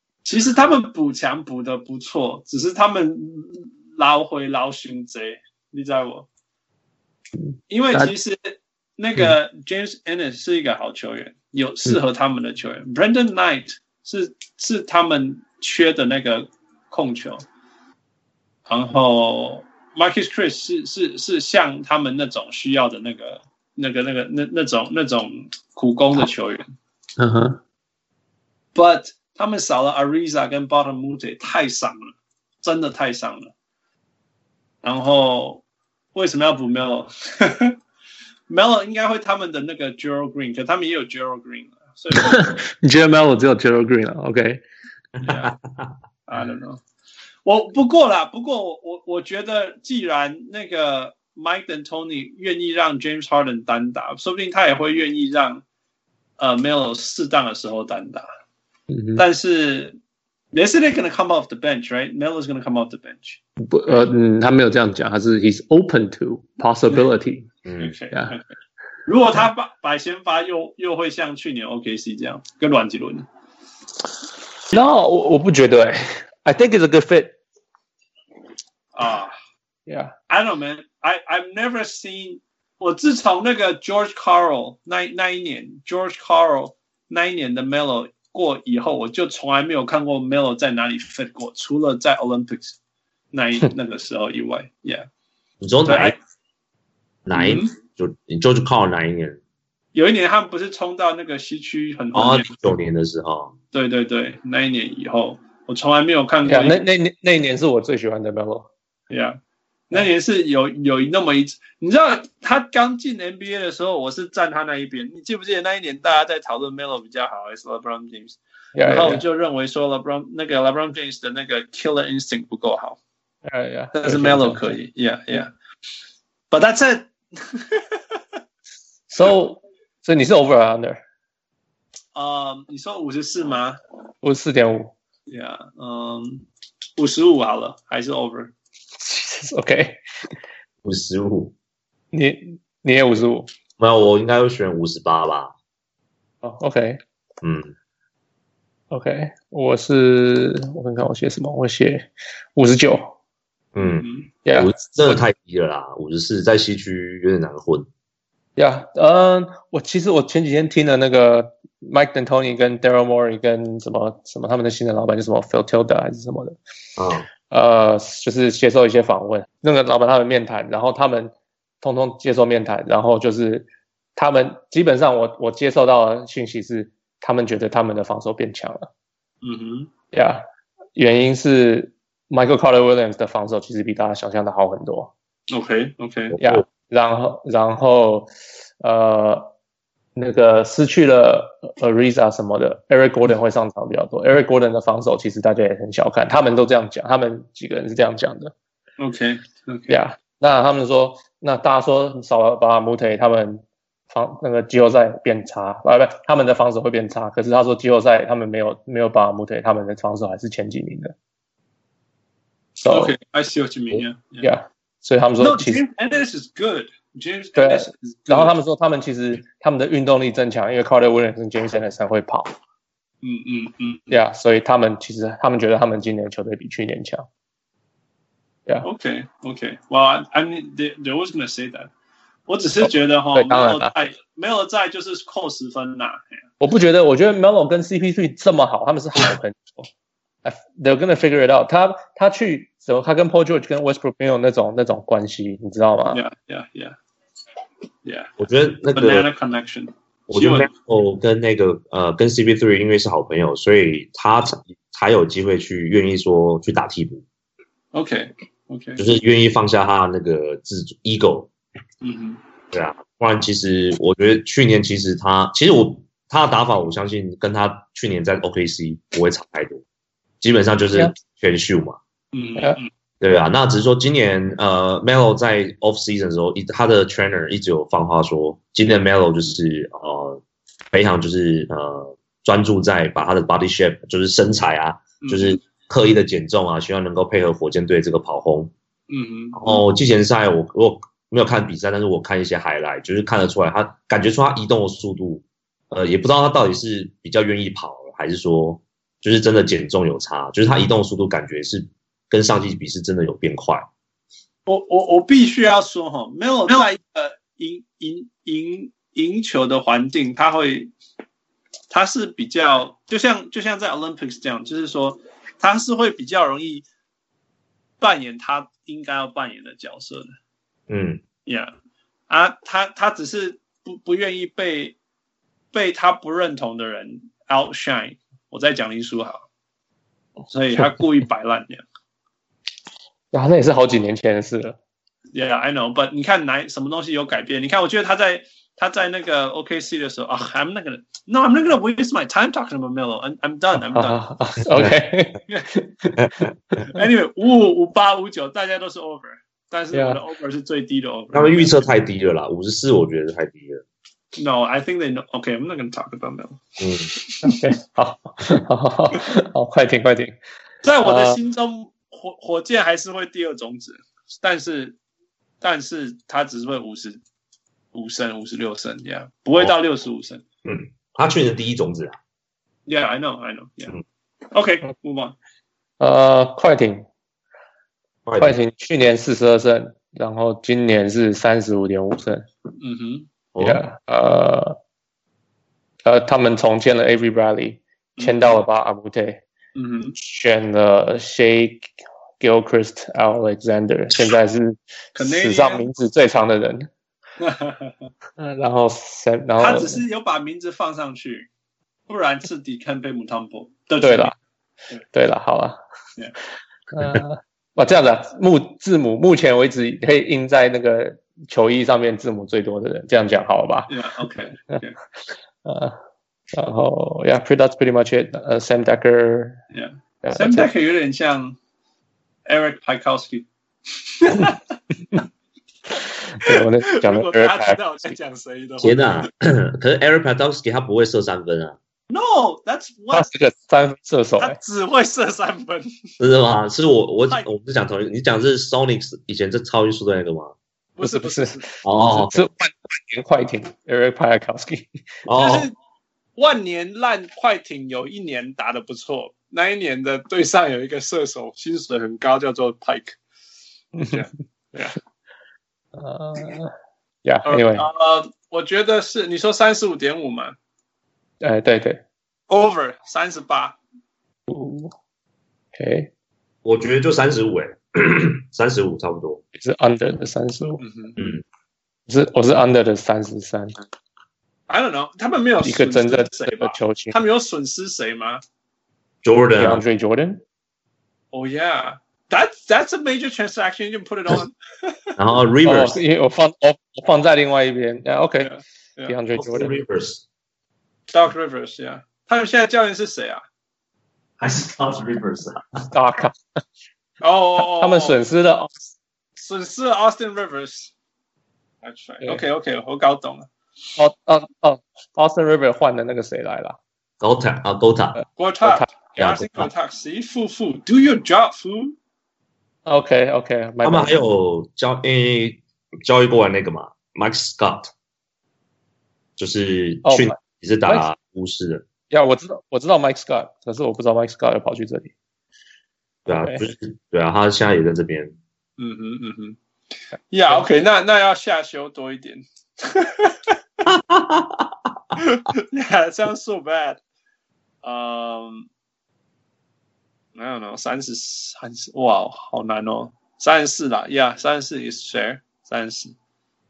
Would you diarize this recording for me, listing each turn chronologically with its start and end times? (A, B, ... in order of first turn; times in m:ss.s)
0:00.2-0:06.3 A
0:07.4-0:08.1 B
0:07.7-0:17.4 A
0:18.7-0:26.7 A
0:27.2-0:27.6 B
0:28.8-0:33.5 A
0:34.8-0:35.6 A
0:36.1-0:37.8 A
0:38.5-0:42.5 A
0:42.2-0:44.6 B
0:45.2-0:45.9 C
0:45.2-0:45.5 A
0:46.3-0:46.8 A
0:47.4-0:55.6 A
0:56.4-0:58.3 A
0:58.9-0:59.2 B
0:59.2-1:00.0 A
1:00.5-1:04.1 A
1:03.6-1:07.5 B
1:07.6-1:08.0 C
1:07.8-1:08.4 A
1:08.1-1:08.4 B
1:09.1-1:13.3 A
1:14.7-1:17.4 B
1:19.0-1:19.3 A
1:19.9-1:20.1 B
1:20.3-1:32.8 A
1:33.3-1:35.1 A
1:35.6-1:36.2 C
1:35.9-1:36.2 A
1:37.3-1:39.4 C
1:37.3-1:37.7 A
1:39.9-1:42.5 A
1:42.1-1:43.5 C
1:43.7-1:46.8 A
1:46.4-1:48.7 B
1:49.1-1:49.4 A
1:49.9-2:03.0 A
1:58.8-1:59.2 B
2:03.5-2:04.8 B
2:04.0-2:05.5 A
2:06.5-2:08.0 A
2:09.1-2:11.0 B
2:12.2-2:13.8 A
2:14.2-2:14.9 B
2:15.3-2:16.5 A
2:17.0-2:18.5 A
2:19.0-2:20.0 B
2:20.8-2:21.5 C
2:22.1-2:23.5 B
2:23.8-2:25.5 C
2:26.4-2:27.0 B
2:27.4-2:27.7 C
2:28.9-2:33.2 B
2:33.8-2:37.9 C
2:34.0-2:34.3 A
2:34.4-2:34.8 B
2:38.6-2:46.6 B
2:47.0-2:47.3 C
2:47.5-2:58.9 B
2:59.4-2:59.9 A
3:00.1-3:00.4 B
3:01.0-3:05.1 B
3:05.5-3:06.4 A
3:06.3-3:06.6 C
3:06.4-3:08.3 B
3:08.8-3:09.5 B
3:10.2-3:18.5 B
3:19.0-3:20.0 A
3:19.9-3:31.1 B
3:32.8-3:33.2 B
3:32.9-3:34.5 A
3:34.4-3:35.8 B
3:35.4-3:38.5 A
3:37.6-3:42.5 B
3:43.2-3:44.2 A
3:44.1-3:47.3 B
3:48.8-3:51.9 A
3:52.5-3:56.2 A
3:52.8-3:54.0 B
3:56.6-3:59.9 B
4:00.4-4:06.2 B
4:06.1-4:07.0 A
4:08.0-4:08.3 A
4:08.4-4:09.3 C
4:08.9-4:10.7 A
4:10.3-4:17.2 C
4:17.9-4:19.0 A
4:19.0-4:21.5 C
4:22.0-4:22.4 A
4:22.7-4:29.8 C
4:30.4-4:32.0 C
4:32.3-4:32.9 A
4:33.2-4:40.4 C
4:40.9-4:48.7 C
4:45.2-4:45.6 A
4:49.1-4:49.8 A
4:49.5-5:03.9 C
5:04.7-5:10.9 A
5:11.9-5:16.9 A
5:18.0-5:20.3 A
5:20.9-5:21.2 C
5:21.5-5:21.7 A
5:22.3-5:25.0 A
5:25.7-5:29.4 A
5:30.5-5:31.8 A
5:33.3-5:34.8 B
5:35.3-5:44.2 A
5:43.8-5:46.2 B
5:46.2-5:46.5 C
5:46.8-5:47.0 B
5:46.9-5:51.8 A
5:49.9-5:50.2 B
5:51.3-5:53.8 C
5:54.4-5:57.6 A
5:56.8-5:57.1 C
5:57.4-6:00.4 B
6:00.8-6:05.0 A
6:01.0-6:01.4 B
6:05.6-6:07.2 A
6:07.9-6:10.4 A
6:10.6-6:12.2 C
6:12.9-6:14.0 A
6:14.5-6:15.4 A
6:16.0-6:17.1 B
6:18.3-6:18.6 C
6:18.4-6:22.5 B
6:22.8-6:23.3 A
6:23.6-6:23.8 C
6:23.6-6:24.8 B
6:26.0-6:29.4 B
6:28.2-6:28.6 A
6:29.8-6:30.2 A
6:30.2-6:36.9 B
6:35.2-6:35.9 A
6:37.4-6:38.0 A
6:38.4-6:40.0 B
6:39.6-6:41.5 A
6:42.1-6:44.3 A
6:44.0-6:44.4 B
6:45.1-6:45.8 B
6:46.9-6:53.9 B
6:53.9-6:55.0 A
6:55.6-6:56.0 B
6:56.5-6:59.6 B
6:59.7-7:01.6 A
7:00.2-7:00.7 B
7:02.5-7:03.5 A
7:04.1-7:04.6 A
7:06.4-7:08.1 B
7:06.4-7:09.3 A
7:08.8-7:11.8 C
7:12.1-7:13.3 A
7:13.1-7:14.6 B
7:14.4-7:15.9 A
7:16.2-7:20.5 C
7:21.0-7:21.7 A
7:21.0-7:25.0 B
7:21.8-7:22.4 C
7:25.3-7:25.7 C
7:25.4-7:25.7 A
7:26.4-7:33.2 A
7:34.0-7:34.2 B
7:34.0-7:35.0 A
7:36.0-7:36.7 B
7:37.2-7:37.9 B
7:37.5-7:40.6 A
7:41.4-7:42.0 B
7:42.5-7:43.8 A
7:44.5-7:44.9 B
7:45.8-7:46.1 B
7:46.6-7:49.4 C
7:49.6-7:50.8 B
7:50.8-7:51.2 A
7:51.2-7:51.4 C
7:52.1-7:53.8 B
7:54.7-7:58.4 A
7:55.6-7:57.2 B
7:59.2-7:59.8 C
7:59.6-8:00.4 B
8:01.3-8:05.2 A
8:05.2-8:06.0 C
8:05.6-8:08.5 B
8:08.4-8:09.2 A
8:09.1-8:09.8 B
8:09.4-8:10.2 C
8:11.1-8:13.4 A
8:14.4-8:15.9 C
8:15.9-8:16.6 B
8:17.2-8:18.2 A
8:17.6-8:18.9 B
8:19.4-8:20.9 A
8:21.8-8:23.5 A
8:24.0-8:26.8 B
8:27.2-8:28.2 C
8:28.2-8:28.9 B
8:28.4-8:32.0 A
8:29.2-8:29.7 C
8:32.9-8:34.2 B
8:33.8-8:37.9 C
8:39.4-8:41.8 C
8:40.0-8:41.1 B
8:42.1-8:45.1 B
8:46.3-8:48.4 C
8:48.8-8:49.6 A
8:50.3-8:53.6 A
8:53.9-8:54.9 C
8:55.2-8:57.0 A
8:57.8-8:58.7 A
9:00.4-9:06.2 A